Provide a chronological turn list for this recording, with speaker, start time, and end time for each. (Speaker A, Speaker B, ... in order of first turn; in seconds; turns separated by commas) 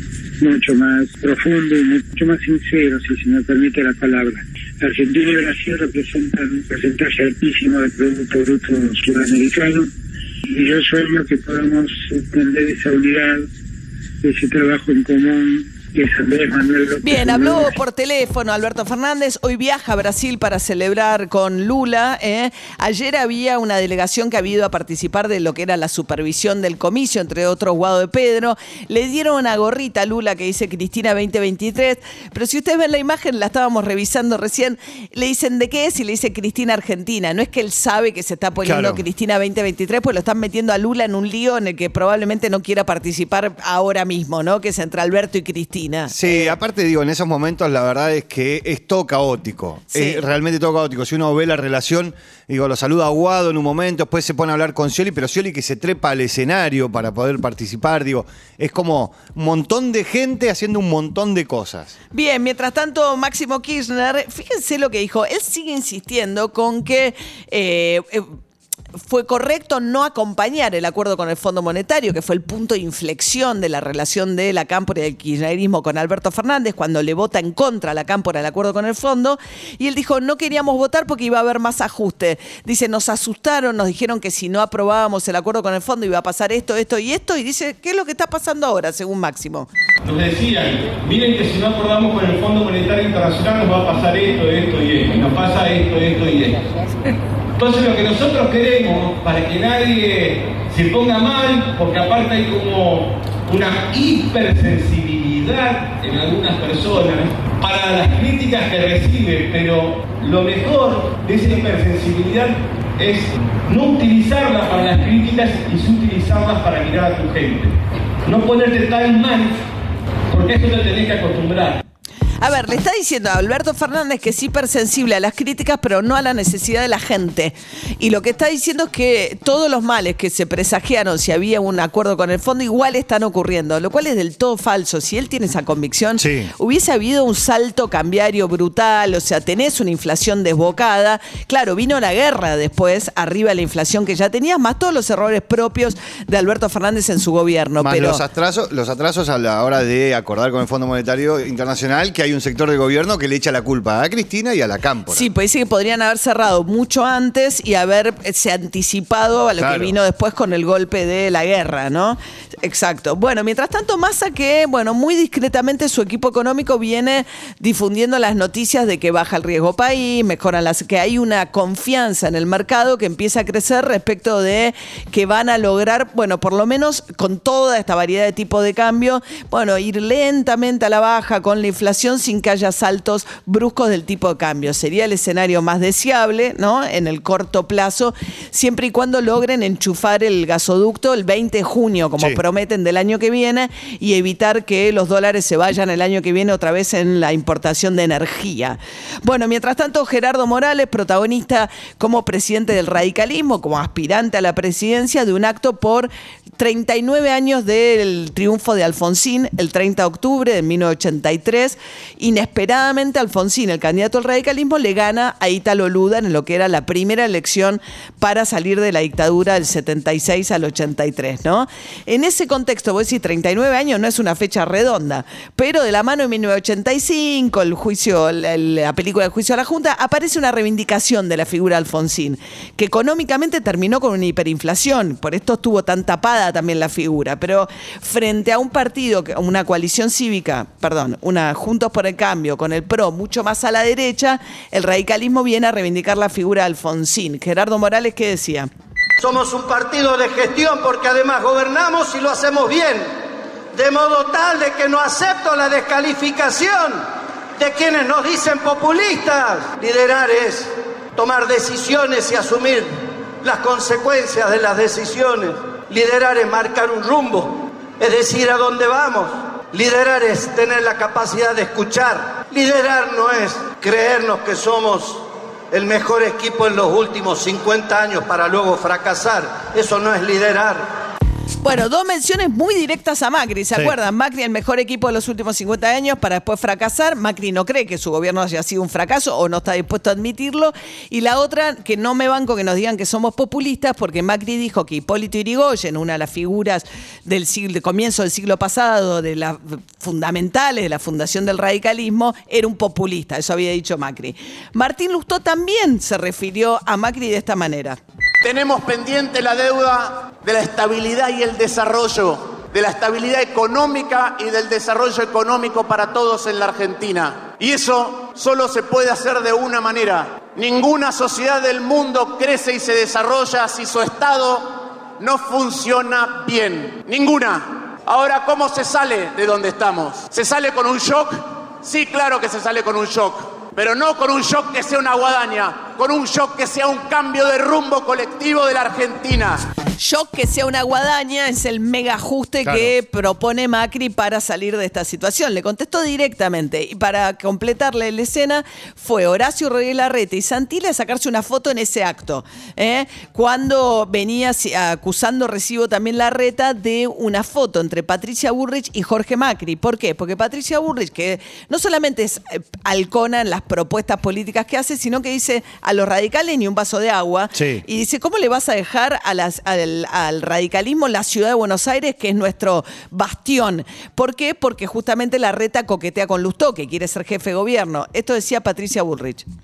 Speaker A: 0.4-9.9, Speaker A: 10.5-13.5, Speaker A: 14.2-17.6, Speaker B: 17.0-46.5, Speaker C: 38.6-39.0, Speaker C: 46.1-61.9, Speaker B: 49.9-50.2, Speaker B: 62.1-68.2, Speaker B: 69.0-89.7, Speaker D: 90.0-96.6, Speaker D: 97.6-119.5, Speaker D: 120.3-121.8, Speaker B: 122.4-148.2, Speaker C: 136.2-136.5, Speaker C: 147.8-155.3, Speaker B: 155.1-248.7, Speaker C: 159.6-159.9, Speaker E: 249.2-253.1, Speaker E: 253.7-257.0, Speaker E: 257.6-262.9, Speaker E: 263.4-280.9, Speaker B: 281.6-308.0, Speaker F: 308.4-339.7, Speaker B: 340.0-379.4, Speaker C: 342.6-342.9, Speaker C: 367.5-367.8